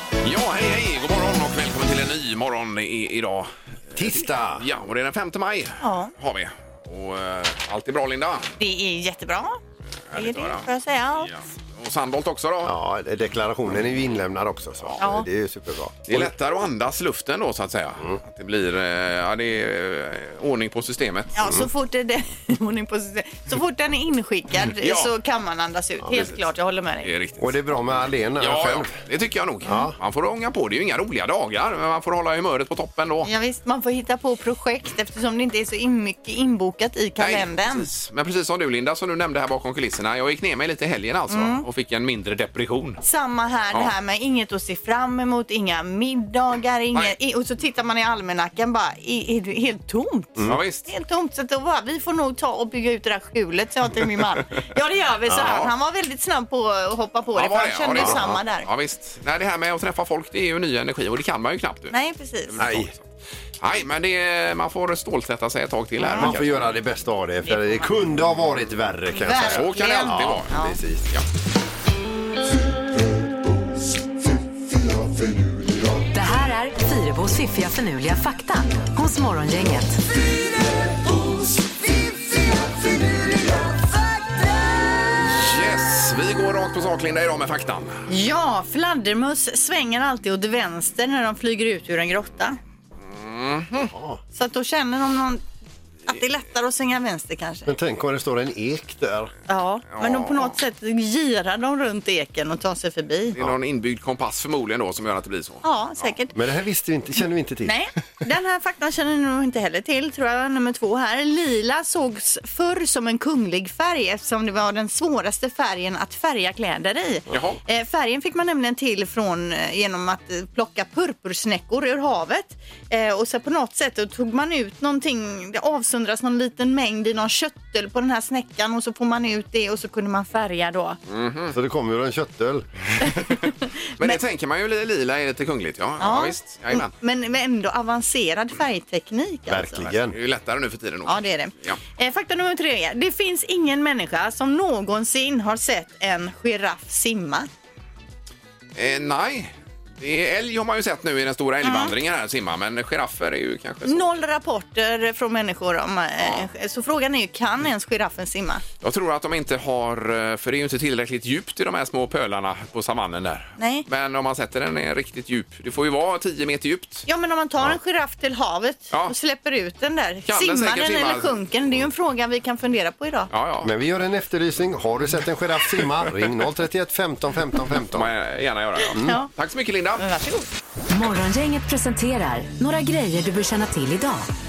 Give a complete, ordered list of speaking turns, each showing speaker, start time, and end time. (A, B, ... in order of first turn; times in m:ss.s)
0:00.2-0:08.5 A
0:04.0-0:04.6 B
0:05.8-0:06.1 C
0:08.6-0:09.6 C
0:10.1-0:10.7 A
0:10.2-0:11.3 C
0:11.2-0:12.7 A
0:12.6-0:16.3 B
0:15.0-0:15.3 C
0:16.1-0:21.3 A
0:21.4-0:27.1 C
0:24.8-0:25.1 A
0:27.0-0:27.6 A
0:27.4-0:28.9 B
0:28.4-0:33.3 A
0:29.6-0:30.0 B
0:33.2-0:37.9 C
0:37.2-0:43.0 A
0:41.3-0:41.6 C
0:43.0-0:58.7 C
0:50.5-0:50.9 A
0:55.3-0:55.6 B
0:57.4-1:01.9 A
0:58.0-0:58.4 B
1:01.9-1:02.6 C
1:02.5-1:03.1 A
1:02.6-1:02.9 B
1:03.6-1:06.7 A
1:06.0-1:06.4 C
1:06.2-1:11.1 B
1:07.4-1:07.9 C
1:09.1-1:10.8 C
1:09.5-1:10.5 A
1:16.1-1:20.0 D
1:25.2-1:28.0 A
1:28.1-1:32.6 C
1:33.0-1:33.9 A
1:33.9-1:34.2 B
1:34.4-1:35.4 C
1:36.1-1:37.7 C
1:37.7-1:39.3 B
1:39.5-1:43.4 C
1:40.0-1:40.6 A
1:43.3-1:45.6 A
1:45.6-1:46.4 C
1:46.3-1:47.8 B
1:47.6-2:11.0 C
1:57.3-1:57.6 A
2:11.1-2:11.6 A
2:11.5-2:12.8 B
2:13.1-2:13.5 C
2:14.0-2:16.9 A
2:16.0-2:19.9 C
2:19.5-2:20.2 B
2:20.1-2:21.8 A
2:21.1-2:27.5 C
2:28.8-2:34.1 A
2:31.6-2:31.9 C
2:33.9-2:38.6 C
2:38.8-2:47.1 A
2:43.6-2:43.9 C
2:47.1-2:53.3 C
2:50.3-2:51.3 A
2:53.3-2:53.7 A
2:53.6-2:58.1 B
2:57.8-3:00.0 A
2:59.0-2:59.3 C
3:00.0-3:00.5 C
3:00.9-3:04.3 D